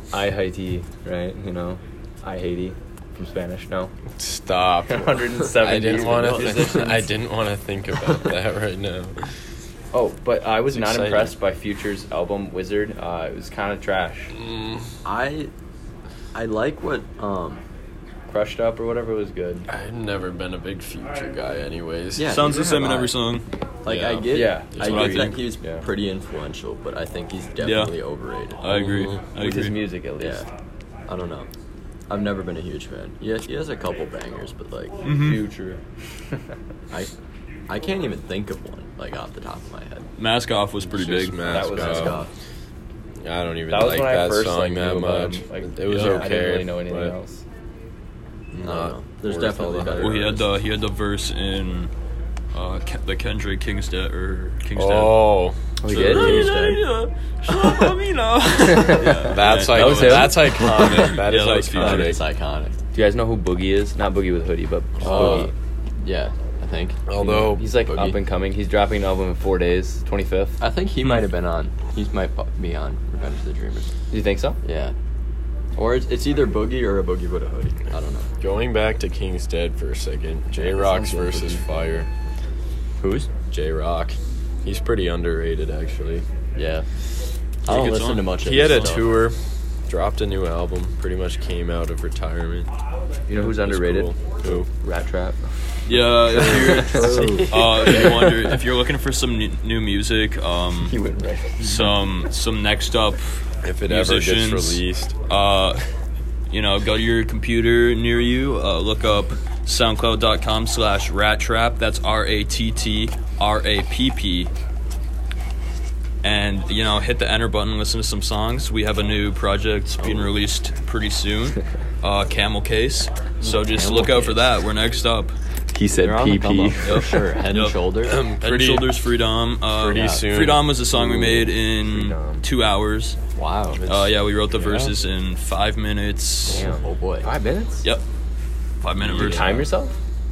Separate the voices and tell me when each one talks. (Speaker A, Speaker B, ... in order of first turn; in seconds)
Speaker A: 0.1-3.9, 4.9-7.1, 9.9-14.3, 18.3-19.7, 24.3-25.0, 25.6-25.9, 29.4-30.5, 35.1-35.8, 41.5-42.3, 43.7-47.4, 55.8-56.5, 58.7-60.8, 62.9-65.5, 67.2-70.6, 74.1-74.6, 80.6-81.6, 93.3-95.5, 96.4-97.5, 100.9-101.7, 125.7-127.3, 131.9-132.4, 136.5-137.9, 139.2-139.9
Speaker B: 4.2-9.2, 10.7-11.3, 14.3-14.9, 19.7-22.4, 23.9-25.3, 40.8-42.2, 43.2-47.1, 48.5-50.2, 54.8-55.6, 59.2-62.2, 65.0-65.5, 67.1-67.7, 78.4-82.1, 83.5-86.3, 88.4-92.7, 93.3-94.7, 96.4-97.5, 103.6-105.1, 128.0-129.0, 129.8-130.7, 134.5-134.9, 139.0-139.5
Speaker C: 5.8-6.9, 15.0-15.5, 16.4-17.6, 22.2-23.1, 23.8-29.1, 30.2-30.5, 31.1-31.5, 32.1-35.0, 37.7-40.1, 41.5-42.3, 45.9-46.3, 48.6-50.5, 55.9-56.8, 61.8-62.8, 65.0-67.1, 67.7-68.2, 70.6-73.9, 74.6-74.9, 75.8-78.3, 83.0-83.3, 86.5-86.9, 87.7-89.2, 96.4-98.1, 120.0-120.3, 123.4-124.4, 126.0-128.2, 129.8-130.3, 133.4-133.8, 136.5-137.3
Speaker D: 22.2-23.5, 24.8-25.5, 27.6-28.0, 28.6-29.8, 35.0-35.4, 40.2-41.6, 50.0-51.9, 52.5-62.2, 87.7-89.0, 95.9-101.0, 101.6-105.8, 106.5-114.5, 116.2-125.3, 126.8-133.2, 133.8-136.7, 138.8-139.7